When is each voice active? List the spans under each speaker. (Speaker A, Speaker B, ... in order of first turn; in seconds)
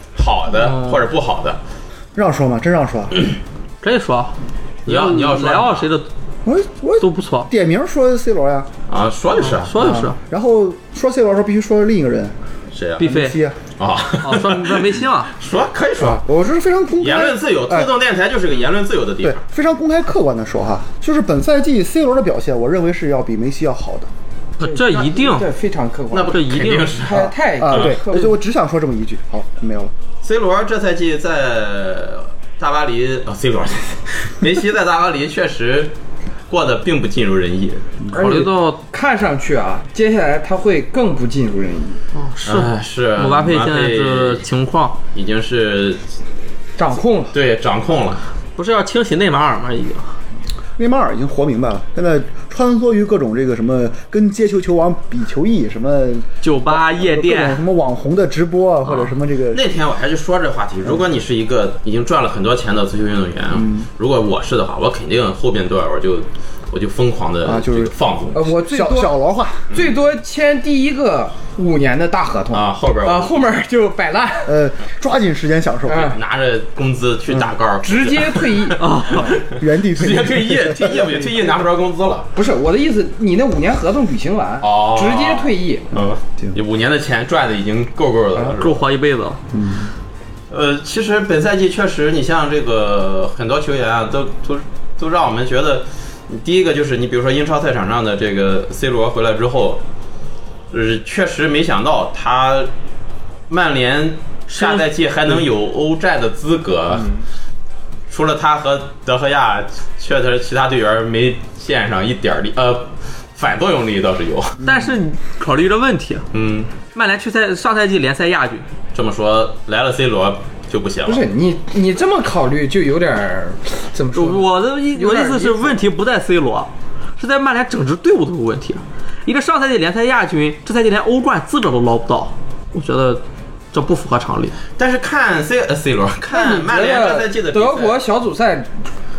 Speaker A: 0.2-1.6, 4.9-5.9, 8.9-9.8, 12.7-13.1, 13.8-16.2, 17.0-19.4, 26.1-28.0, 30.2-35.9, 36.5-37.9, 42.5-44.4, 45.1-46.0, 47.3-48.2, 59.5-68.5, 72.5-73.3, 76.1-82.3, 84.6-88.9, 90.5-99.8, 100.7-102.7, 103.5-107.1, 108.1-114.7, 116.3-116.7, 118.9-121.2, 134.8-138.0
Speaker B: 0.5-1.0, 3.8-6.1, 7.0-7.5, 9.5-10.2, 13.0-13.4, 14.2-15.3, 24.6-25.5, 26.2-27.1, 38.1-38.8, 42.1-45.0, 48.6-50.1, 56.4-57.6, 78.8-79.4, 88.6-89.4, 104.6-104.8, 114.6-116.3, 116.9-118.7, 124.1-134.6
Speaker C: 2.1-3.2, 6.5-8.7, 9.7-12.4, 13.0-13.6, 16.0-17.9, 19.2-24.1, 27.6-29.9, 50.8-59.6, 63.5-63.9, 67.4-69.7, 74.5-76.2, 79.1-81.3, 86.0-86.6, 89.5-89.9
Speaker D: 24.6-28.4, 38.1-42.0, 46.8-47.3, 68.3-69.1, 69.7-74.5, 75.9-76.2, 77.8-78.8, 82.3-85.9, 121.1-125.8, 136.3-138.7